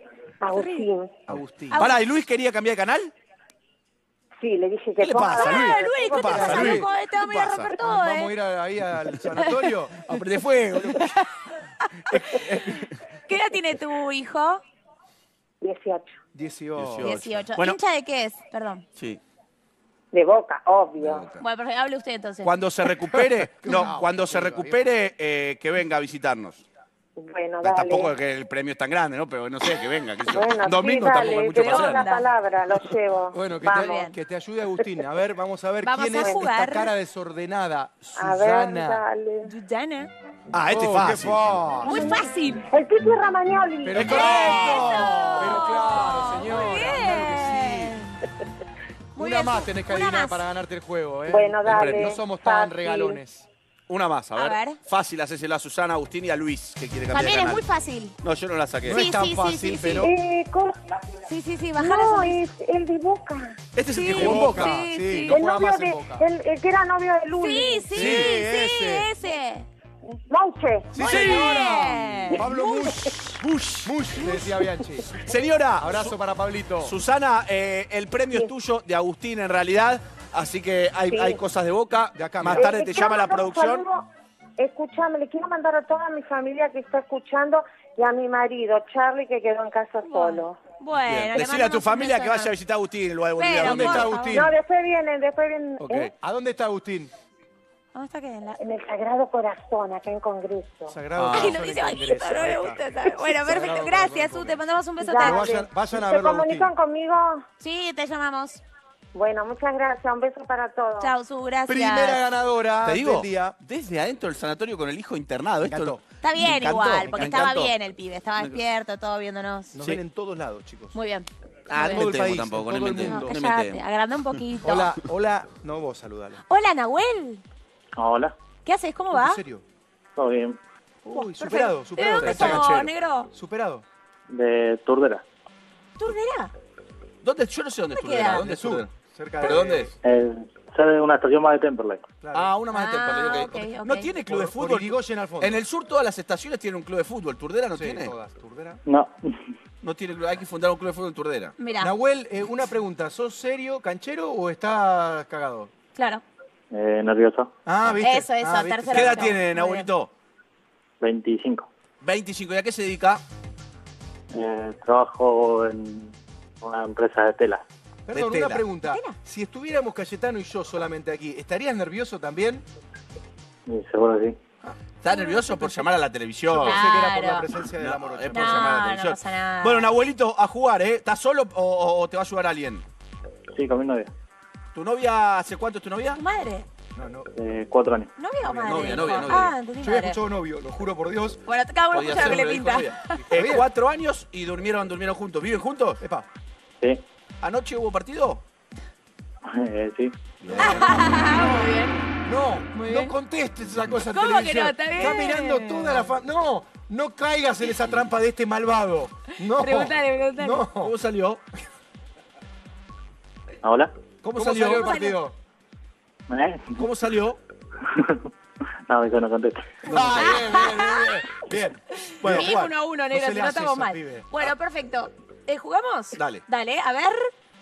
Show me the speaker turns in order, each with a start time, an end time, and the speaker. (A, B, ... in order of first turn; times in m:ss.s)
0:00.4-0:01.1 A
0:00.5-0:00.9 B
0:01.3-0:01.8 C
0:01.3-0:03.1 D
0:01.7-0:02.0 B
0:04.4-0:06.8 A
0:05.0-0:07.7 D
0:05.4-0:08.3 B
0:06.4-0:06.9 C
0:07.8-0:10.0 C
0:10.0-0:11.1 D
0:10.9-0:14.6 B
0:12.2-0:12.8 D
0:15.6-0:16.2 A
0:16.3-0:17.1 C
0:16.8-0:17.8 D
0:17.0-0:18.8 B
0:20.1-0:21.3 A
0:21.0-0:21.4 D
0:21.4-0:22.5 B
0:22.4-0:26.6 D
0:23.1-0:24.8 C
0:27.2-0:28.1 A
0:27.6-0:32.0 D
0:30.2-0:34.0 A
0:31.0-0:32.3 B
0:33.3-0:39.0 C
0:33.7-0:34.1 B
0:35.8-0:36.9 B
0:36.1-0:36.4 A
0:38.2-0:39.5 A
0:39.4-0:40.1 B
0:40.5-0:41.6 D
0:40.6-0:42.1 C
0:41.8-0:44.8 A
0:41.8-0:42.7 B
0:43.8-0:48.0 C
0:43.9-0:48.2 B
0:44.0-0:45.7 D
0:49.2-0:50.4 B
0:49.2-0:53.5 C
0:51.3-0:53.2 A
0:51.6-0:52.2 D
0:53.9-0:57.7 D
0:54.4-0:54.8 B
0:57.1-0:58.2 B
0:58.2-0:59.0 D
0:58.8-1:00.2 C
0:58.9-1:00.1 B
1:00.0-1:00.8 A
1:01.3-1:02.4 B
1:01.8-1:03.6 A
1:03.8-1:04.8 D
1:03.9-1:05.4 B
1:04.1-1:06.2 C
1:05.3-1:08.2 A
1:07.4-1:09.6 B
1:07.9-1:09.1 C
1:10.2-1:11.6 A
1:10.9-1:15.2 C
1:10.9-1:12.6 B
1:12.3-1:12.7 A
1:12.8-1:13.9 D
1:15.1-1:16.2 D
1:15.8-1:17.0 C
1:16.8-1:23.9 D
1:21.1-1:21.4 A
1:22.2-1:22.7 C
1:22.5-1:30.6 A
1:30.0-1:32.5 B
1:31.0-1:34.1 D
1:33.4-1:34.5 B
1:33.6-1:34.6 C
1:34.3-1:35.8 A
1:35.8-1:37.1 C
1:38.0-1:38.6 B
1:38.6-1:41.0 A
1:40.9-1:44.6 C
1:41.2-1:41.6 D
1:41.3-1:45.4 B
1:45.0-1:47.4 A
1:45.2-1:46.7 C
1:47.6-1:48.6 B
1:49.1-1:51.1 A
1:51.0-1:52.2 B
1:51.7-1:53.6 C
1:52.8-1:57.8 D
1:55.6-1:56.0 C
1:56.2-1:59.7 B
1:57.1-1:57.5 C
1:58.4-1:58.6 D
1:59.7-2:01.0 C
2:00.9-2:02.1 B
2:01.7-2:03.8 D
2:01.8-2:03.4 C
2:03.0-2:05.0 B
2:04.6-2:06.4 C
2:06.5-2:07.4 B
2:08.0-2:08.4 E
2:08.7-2:09.4 B
2:09.1-2:09.6 C
2:10.2-2:10.6 E
2:11.0-2:13.8 C
2:11.1-2:13.3 B
2:12.2-2:12.9 D
2:14.3-2:15.2 E
2:16.0-2:16.5 B
2:17.2-2:18.9 D
2:17.9-2:18.5 B
2:18.4-2:19.9 C
2:19.4-2:19.9 D
2:20.0-2:22.0 E
2:22.2-2:22.5 C
2:22.3-2:28.2 D
2:22.7-2:24.1 B
2:24.3-2:25.6 C
2:27.7-2:28.8 C
2:28.9-2:29.6 E
2:29.8-2:31.6 D
2:31.6-2:31.9 B
2:31.8-2:35.7 C
2:36.0-2:36.2 B
2:36.7-2:37.5 E
2:37.6-2:39.4 C
2:38.0-2:39.9 B
2:38.9-2:40.1 D
2:41.0-2:41.7 E
2:42.0-2:43.2 D
2:44.3-2:47.6 E
2:48.1-2:52.6 C
2:48.1-2:48.7 D
2:48.9-2:49.2 B
2:53.7-2:54.4 E
2:55.0-2:56.8 D
2:55.0-2:55.8 B
2:56.5-2:58.6 C
2:56.6-2:57.5 B
2:57.8-3:02.8 D
2:58.3-2:59.9 B
3:03.5-3:04.1 E
3:04.7-3:06.2 D
3:06.2-3:06.7 B
3:07.0-3:07.3 C
3:07.4-3:08.1 E
3:08.2-3:10.2 B
3:08.4-3:11.4 C
3:08.7-3:09.5 D
3:11.5-3:13.1 B
3:11.9-3:16.0 D
3:13.3-3:13.7 C
3:16.0-3:16.3 C
3:17.4-3:18.4 D
3:19.4-3:20.2 E
3:20.4-3:20.9 D
3:20.5-3:21.7 C
3:20.6-3:22.0 B
3:22.2-3:30.9 C
3:22.8-3:23.1 B
3:24.1-3:26.1 B
3:29.4-3:30.6 B
3:30.8-3:31.4 D
3:33.6-3:33.9 E
3:34.2-3:34.9 D
3:34.4-3:35.3 C
3:34.7-3:35.2 B
3:36.3-3:36.8 E
3:36.8-3:37.4 D
3:37.8-3:38.3 E
3:38.9-3:40.1 E
3:39.9-3:42.6 C
3:39.9-3:40.6 D
3:40.1-3:41.2 B
3:41.5-3:42.7 D
3:42.0-3:47.3 B
3:43.1-3:44.3 C
3:46.2-3:46.4 D